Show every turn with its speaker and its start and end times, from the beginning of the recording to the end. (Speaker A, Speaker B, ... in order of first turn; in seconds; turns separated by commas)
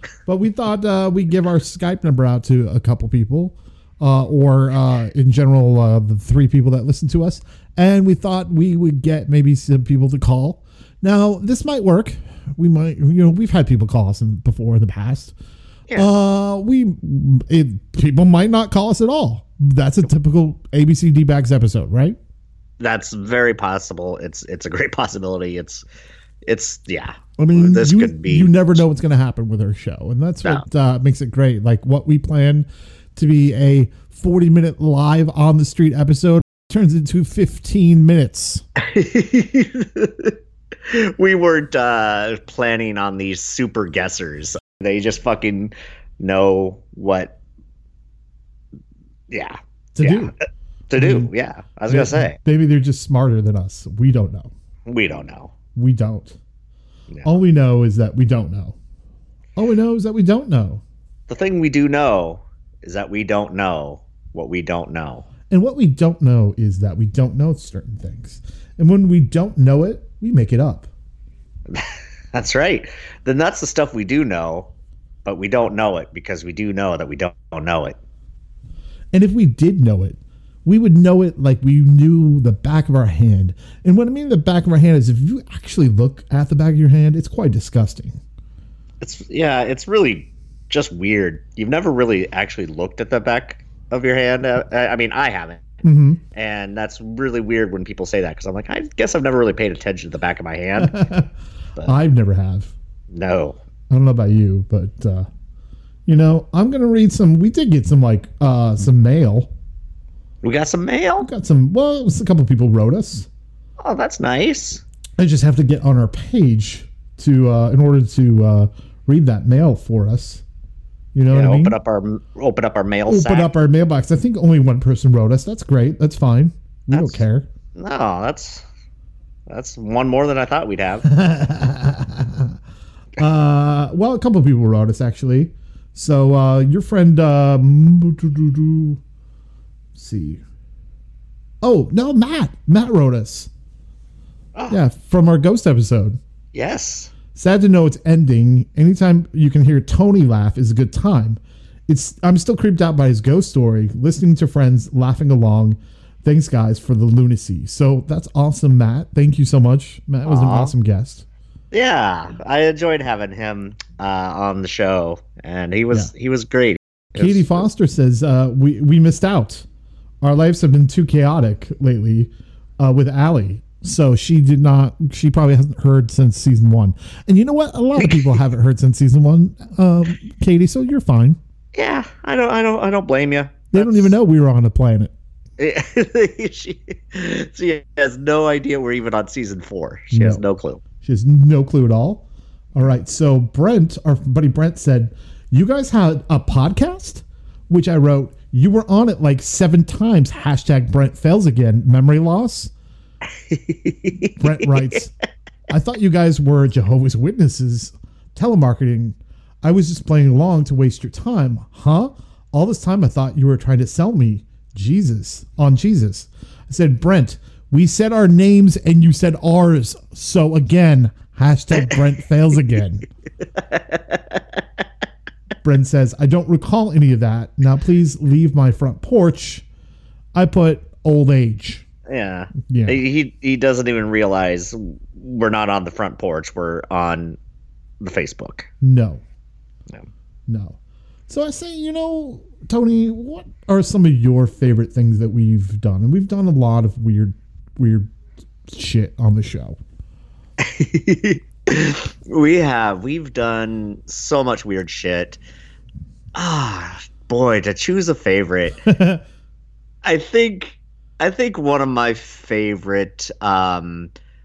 Speaker A: 0.3-15.3, Speaker A: 15.9-22.2, Speaker B: 22.8-25.9, Speaker B: 26.5-28.6, Speaker A: 27.4-38.6, Speaker B: 38.8-40.4, Speaker B: 40.9-47.4, Speaker B: 49.3-50.4, Speaker A: 50.0-50.3, Speaker B: 50.9-52.4, Speaker A: 50.9-51.3, Speaker A: 51.9-54.5, Speaker B: 54.9-55.5, Speaker A: 55.8-56.4, Speaker B: 57.1-57.4, Speaker A: 57.2-58.8, Speaker A: 59.6-60.8, Speaker B: 61.3-65.3, Speaker A: 65.5-70.9, Speaker B: 71.7-74.7, Speaker B: 75.2-78.0, Speaker A: 79.1-88.2, Speaker B: 89.0-95.7, Speaker A: 95.8-96.2, Speaker B: 96.3-101.0, Speaker A: 100.8-102.7, Speaker B: 103.1-103.6, Speaker A: 103.9-105.3, Speaker A: 106.1-109.5, Speaker B: 110.4-111.3, Speaker A: 111.2-113.3, Speaker B: 113.8-114.8, Speaker A: 115.2-120.4, Speaker A: 121.1-121.8, Speaker B: 121.3-123.5, Speaker A: 123.0-127.5, Speaker B: 126.9-127.2, Speaker B: 127.8-128.7, Speaker B: 129.5-131.1, Speaker A: 131.1-132.6, Speaker A: 133.2-139.0, Speaker A: 139.9-140.4, Speaker A: 141.6-143.5, Speaker A: 144.7-146.2, Speaker B: 146.5-147.1, Speaker A: 147.3-161.3, Speaker B: 160.2-160.7, Speaker B: 161.7-167.6, Speaker A: 167.2-169.7, Speaker A: 170.2-181.4, Speaker B: 178.0-178.3, Speaker B: 181.7-184.1, Speaker A: 183.7-185.1, Speaker B: 185.6-190.8, Speaker A: 190.1-190.4, Speaker A: 191.0-202.7, Speaker B: 203.4-204.6, Speaker A: 204.4-205.1, Speaker A: 205.7-223.1, Speaker B: 223.6-224.6, Speaker A: 225.6-229.7, Speaker A: 230.3-231.9, Speaker B: 232.1-237.4, Speaker A: 232.6-233.0, Speaker B: 238.0-238.7, Speaker A: 238.8-239.2, Speaker A: 240.5-240.8, Speaker A: 241.3-248.1, Speaker A: 248.7-249.8, Speaker B: 250.6-255.4, Speaker B: 256.4-258.8, Speaker A: 258.9-259.2, Speaker B: 260.0-264.1